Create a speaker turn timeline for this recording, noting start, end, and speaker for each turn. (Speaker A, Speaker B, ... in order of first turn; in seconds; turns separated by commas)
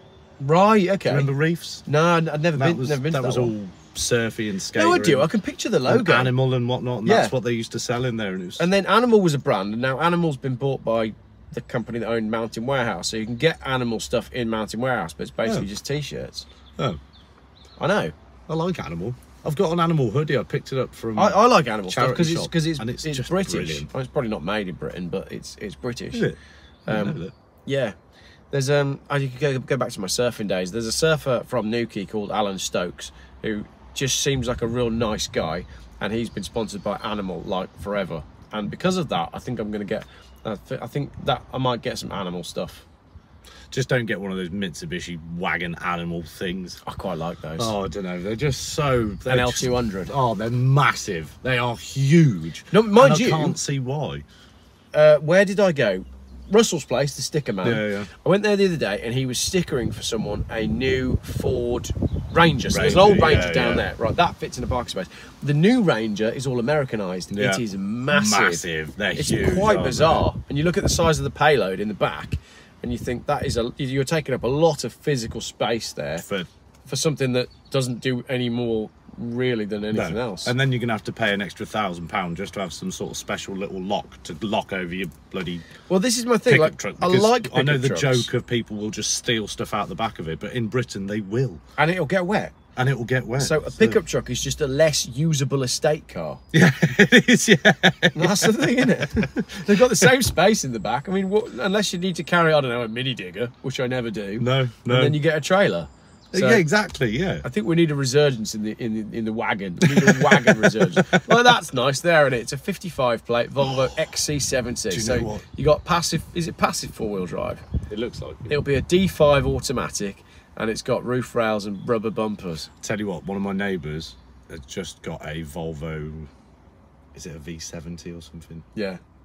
Speaker A: 0.4-1.3, Speaker B: 1.1-1.8, Speaker A: 1.9-3.5, Speaker B: 2.5-5.3, Speaker A: 4.7-6.3, Speaker B: 5.9-8.7, Speaker A: 7.0-7.3, Speaker A: 8.6-16.4, Speaker A: 17.8-18.1, Speaker B: 18.5-23.9, Speaker A: 21.1-26.3, Speaker A: 26.9-27.9, Speaker B: 26.9-27.3, Speaker A: 28.5-42.8, Speaker B: 43.7-46.8, Speaker A: 46.8-47.7, Speaker B: 47.6-54.2, Speaker A: 49.2-50.1, Speaker A: 52.7-53.6, Speaker A: 54.9-68.6, Speaker B: 57.6-58.1, Speaker B: 62.7-63.9, Speaker B: 67.3-70.3, Speaker A: 69.2-76.3, Speaker B: 76.2-76.5, Speaker A: 76.8-80.5, Speaker B: 79.9-85.7, Speaker A: 85.9-88.3, Speaker B: 86.5-91.6, Speaker A: 91.8-92.6, Speaker B: 92.8-94.0, Speaker A: 93.4-96.4, Speaker B: 96.5-100.0, Speaker A: 98.1-106.6, Speaker B: 104.4-105.2, Speaker B: 106.3-107.4, Speaker A: 107.4-117.6, Speaker B: 109.8-111.2, Speaker B: 113.6-113.9, Speaker B: 114.9-115.4, Speaker B: 117.9-118.5, Speaker A: 118.5-122.7, Speaker B: 122.8-126.3, Speaker B: 127.1-128.6, Speaker A: 128.7-129.0